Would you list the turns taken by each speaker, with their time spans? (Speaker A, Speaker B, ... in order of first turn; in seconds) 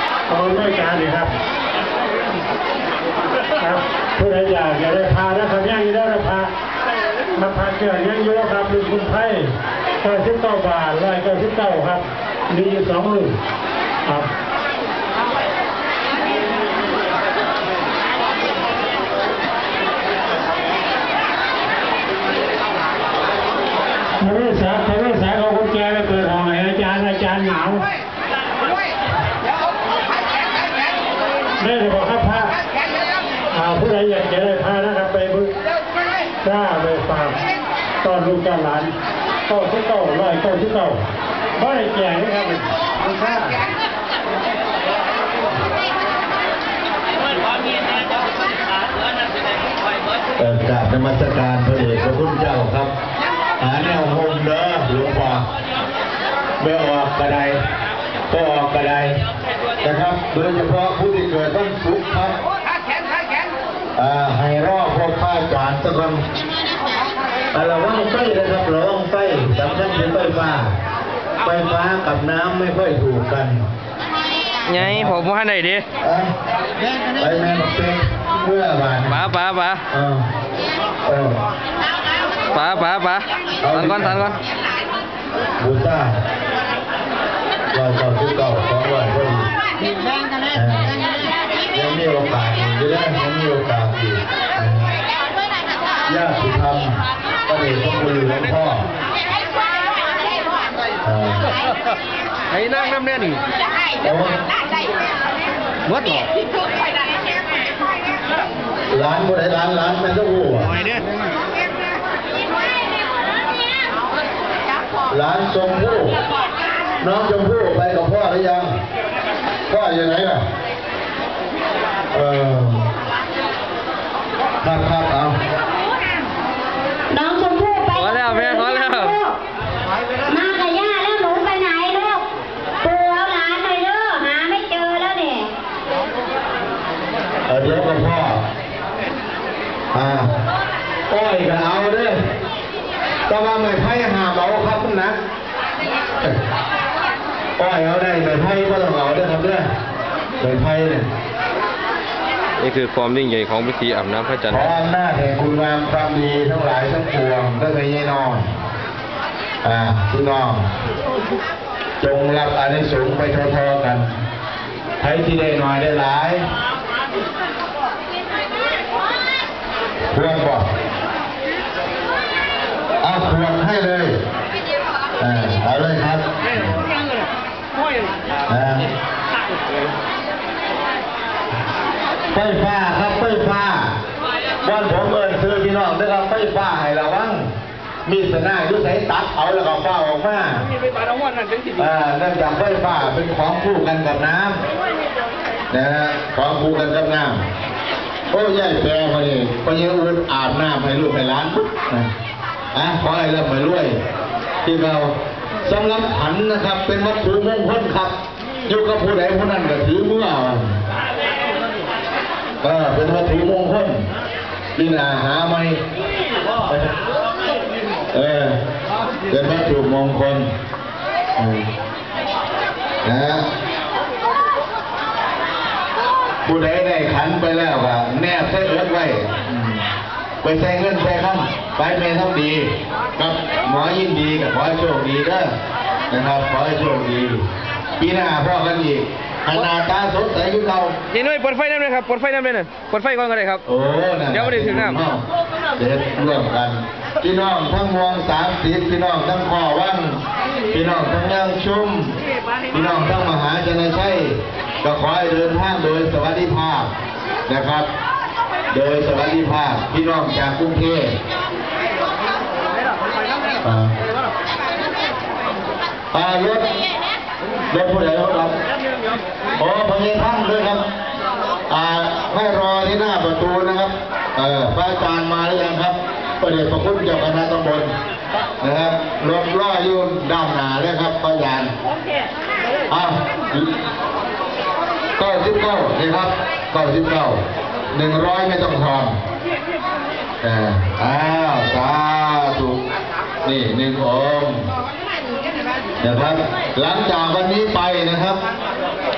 Speaker A: 0.3-1.3, 3.6-6.5, 7.3-13.3, 24.2-27.8, 31.6-32.5, 33.5-35.5, 36.4-37.4, 38.0-38.9, 39.5-41.0, 41.5-43.6
Speaker B: 50.4-52.9, 53.6-55.5, 56.6-57.6, 58.3-59.2, 59.8-62.4, 64.0-66.2, 67.5-70.8, 71.4-73.7, 74.7-75.2, 76.0-76.3, 77.2-79.2, 79.9-80.3, 81.1-81.4, 83.6-84.3, 85.6-86.2, 87.7-89.5, 90.5-90.9, 91.7-94.9, 96.1-98.9, 101.0-101.5, 104.0-104.4, 108.9-110.8, 115.1-116.2, 117.0-118.7, 119.7-120.4, 122.1-122.9, 124.6-125.4, 137.5-138.4, 139.9-140.3, 141.1-142.2, 143.3-145.2, 147.6-149.7, 150.4-151.1, 154.5-158.5, 159.6-160.7, 162.0-164.1, 165.0-166.5, 170.1-170.7, 173.0-174.2, 175.2-176.8, 178.5-178.9, 182.3-184.0, 184.6-187.5, 188.1-190.7, 191.8-194.6, 195.7-197.4, 198.3-202.1, 202.7-204.0, 204.7-208.1, 208.7-210.8, 212.6-214.1, 214.8-215.8, 216.7-217.0, 218.1-218.6, 219.3-220.5, 221.4-221.7, 223.0-223.5, 226.4-229.8, 230.4-235.5, 236.1-237.4, 238.0-241.0, 243.7-245.2, 245.8-250.2, 250.7-252.2, 252.7-256.9, 257.5-257.9, 258.7-261.2, 263.6-263.9, 266.1-266.7, 267.7-268.6, 269.6-270.9, 271.7-277.9, 278.6-281.7, 282.9-283.7, 285.2-289.2, 290.4-292.8, 293.4-294.7, 296.0-298.4
Speaker C: 74.7-75.8, 79.1-79.8, 82.5-84.4, 128.0-129.2, 152.6-154.7, 241.1-243.6, 244.3-245.0
Speaker D: 127.1-129.4, 130.3-132.2, 132.8-135.5